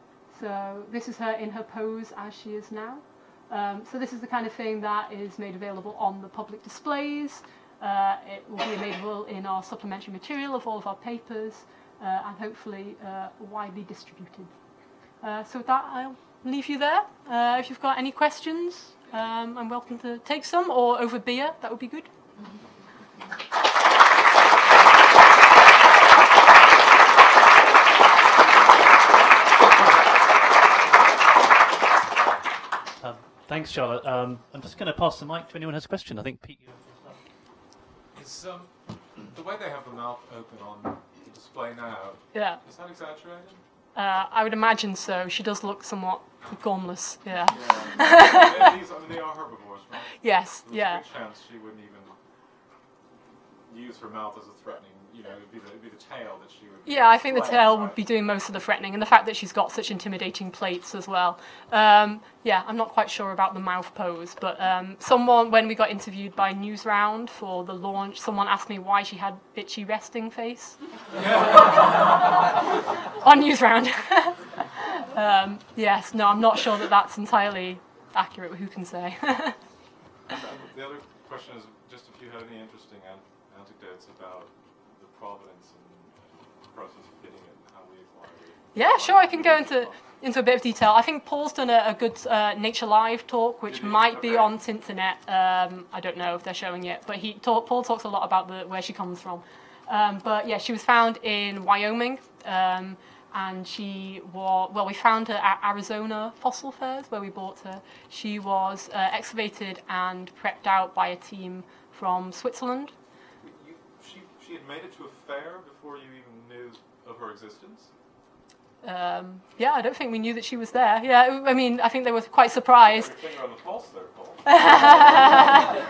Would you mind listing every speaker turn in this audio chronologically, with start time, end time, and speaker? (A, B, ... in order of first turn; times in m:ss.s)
0:00.3-0:14.5 A
0:15.2-0:22.1 A
0:33.0-0:37.2 B
0:38.1-0:43.6 C
0:42.3-0:42.6 A
0:43.9-0:48.7 A
0:47.4-0:52.2 C
0:50.2-0:51.0 A
0:53.7-0:58.0 C
0:56.8-1:10.8 A
1:11.2-1:12.2 C
1:13.2-1:19.6 A
1:20.3-1:30.0 C
1:28.7-1:52.9 A
1:33.7-1:34.5 C
1:53.4-1:57.9 C
1:58.8-2:03.1 A
2:02.8-2:05.7 C
2:04.5-2:05.7 A